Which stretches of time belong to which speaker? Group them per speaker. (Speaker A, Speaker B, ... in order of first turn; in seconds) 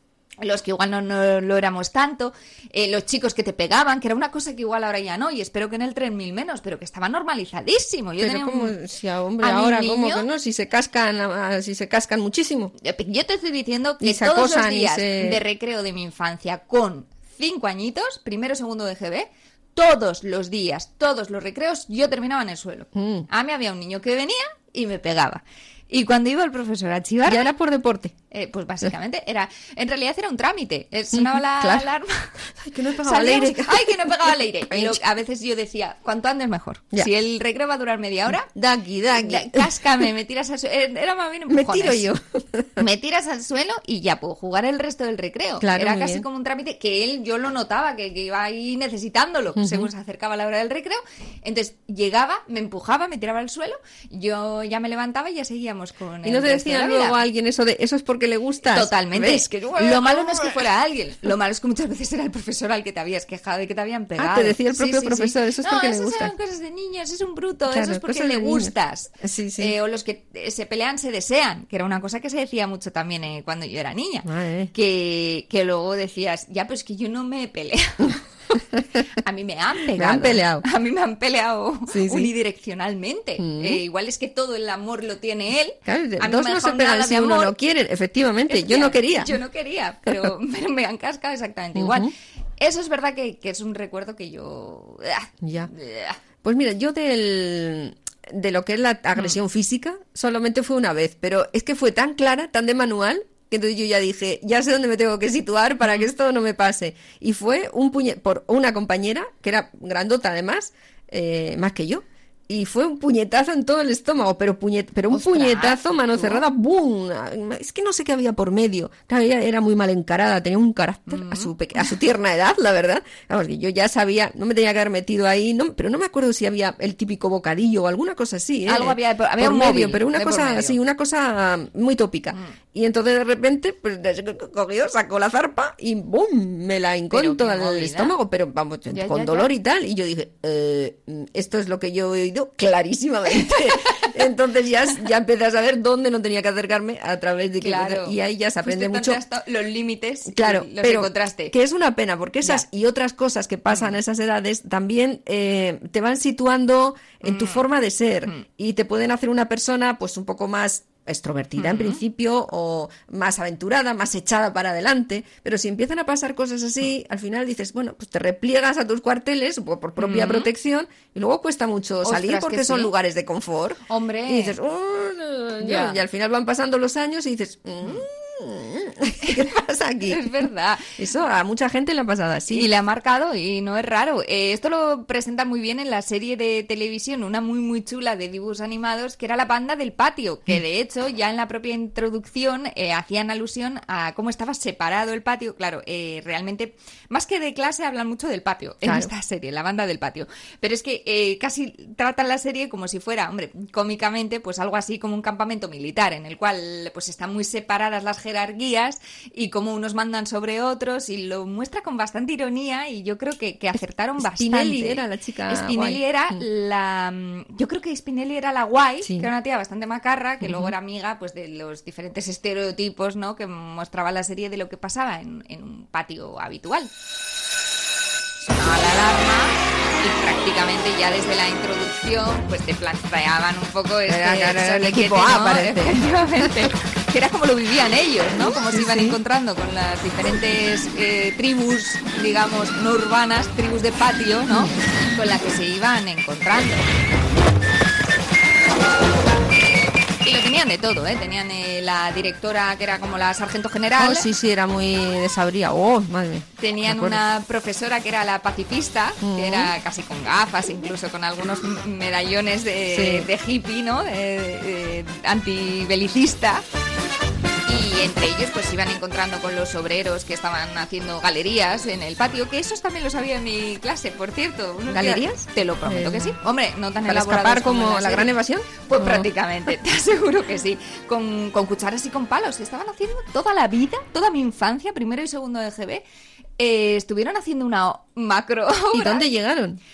Speaker A: 0.4-8.8, 9.4-10.3, 12.8-27.5, 28.3-32.3, 33.0-38.5, 39.1-42.1, 42.8-57.2, 58.6-78.2, 79.2-87.5, 88.5-96.2, 105.8-106.1, 115.1-116.4, 121.1-121.5, 128.7-130.8, 137.1-138.1, 138.9-139.5, 143.5-144.1, 147.6-151.5, 153.7-153.9, 157.2-157.6, 161.6-162.0, 170.0-170.5, 172.0-172.9, 173.9-174.5, 175.6-176.0, 180.1-180.9, 182.5-226.9, 228.4-246.8, 250.2-254.3, 256.6-266.6, 267.6-286.0, 286.6-289.2
Speaker B: 8.2-12.7, 14.0-15.4, 22.9-23.3, 27.2-28.1, 31.1-31.9, 32.5-34.0, 34.7-35.0, 38.5-39.7, 41.5-42.9, 45.6-46.2, 49.5-49.9, 56.2-60.6, 64.2-66.3, 67.7-69.8, 74.2-74.7, 78.5-79.0, 80.0-80.6, 81.9-82.3, 83.4-83.8, 85.9-89.3, 91.8-92.1, 95.4-95.7, 96.4-149.2, 150.3-180.3, 180.9-182.7, 198.8-199.1, 214.2-216.4, 219.0-219.3, 220.4-220.7, 234.1-236.5, 238.6-239.2, 244.5-244.8, 254.0-257.2, 259.2-259.7, 262.9-263.3, 274.9-276.4, 277.1-279.3, 288.9-289.8